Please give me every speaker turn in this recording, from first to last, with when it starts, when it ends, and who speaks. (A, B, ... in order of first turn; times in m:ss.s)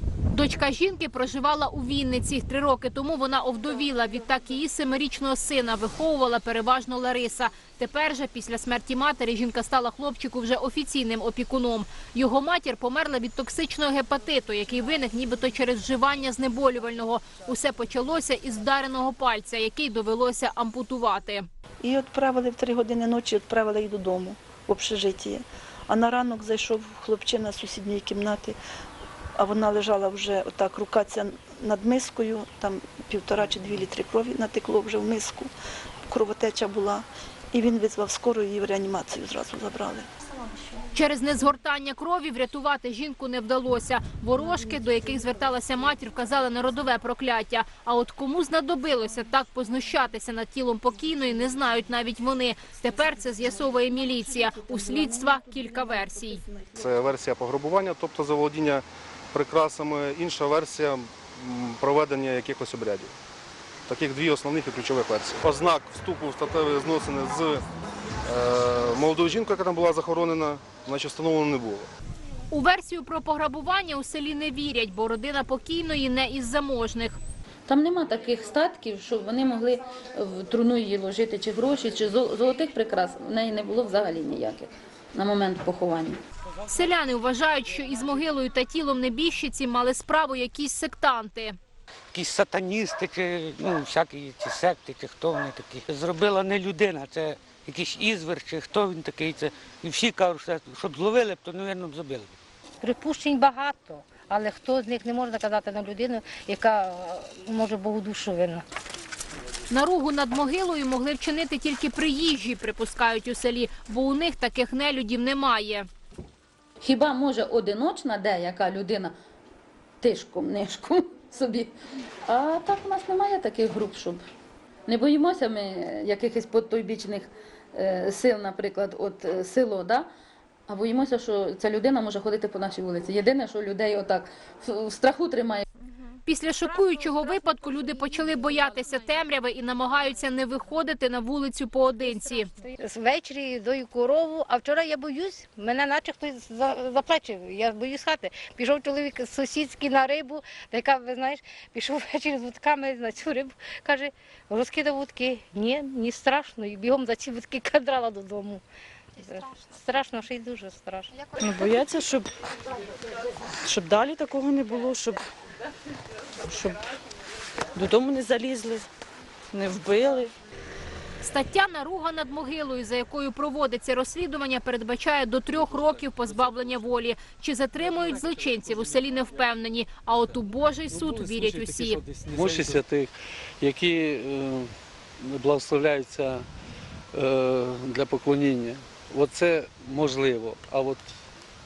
0:00.3-0:21.5 A
0:21.8-0:28.6 B
0:29.4-0:35.5 B
0:36.1-0:40.1 B
0:40.9-0:56.5 A
0:56.7-1:03.1 C
1:03.9-1:07.6 C
1:08.2-1:11.9 C
1:12.5-1:17.2 A
1:17.7-1:26.2 D
1:26.7-1:31.6 A
1:32.1-1:42.3 E
1:42.8-1:48.6 F
1:49.7-1:55.9 A
1:56.8-1:59.1 D
2:00.0-2:01.7 D
2:02.3-2:04.2 D
2:04.9-2:10.1 D
2:10.7-2:15.6 D
2:16.2-2:22.5 A
2:22.6-2:38.6 F
2:39.2-2:41.1 F
2:41.4-2:42.2 G
2:43.6-2:45.2 G
2:46.5-2:46.7 G
2:47.8-2:48.8 G
2:49.5-2:50.3 G
2:51.2-3:02.0 A
3:00.9-3:02.7 E
3:02.3-3:04.7 H
3:05.2-3:06.4 H
3:07.1-3:11.1 H